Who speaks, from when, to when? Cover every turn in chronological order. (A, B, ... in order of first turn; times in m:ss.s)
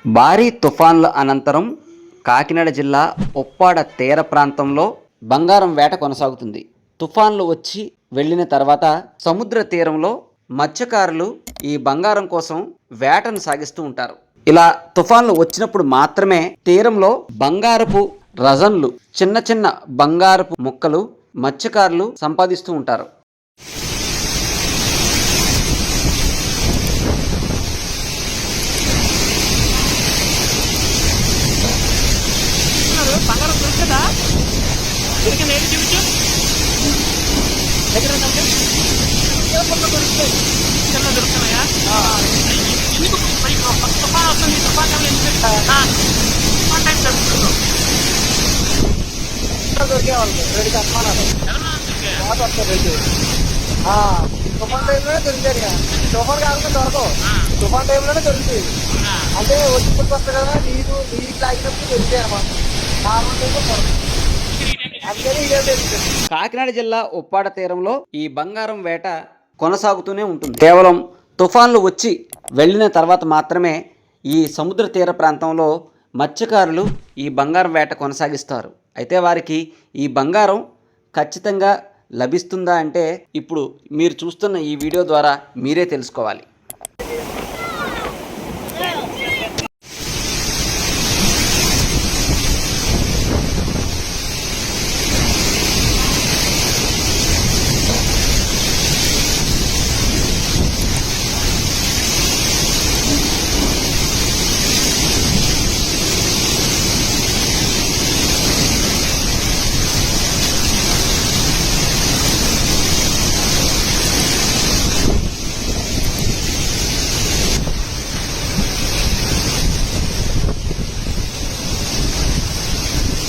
0:00.2-0:01.7 A
0:02.3-0:23.1 A
0:32.7-0:34.0 B
0:35.2-0:36.0 B
0:37.9-0:38.5 B
0:39.3-0:40.3 C
0:40.9-0:41.7 B
0:41.9-0:42.2 C
0:42.5-0:45.9 B
0:46.7-0:47.5 B
0:49.7-0:51.3 C
0:51.5-0:52.2 B
0:52.2-0:53.0 C
0:53.9-0:57.1 C
0:57.6-0:58.6 C
0:59.4-1:02.5 C
1:03.1-1:04.0 C
1:04.6-1:05.0 B
1:05.0-1:06.1 C
1:06.3-1:13.8 A
1:14.3-1:15.7 A
1:16.2-1:20.6 A
1:21.2-1:26.4 A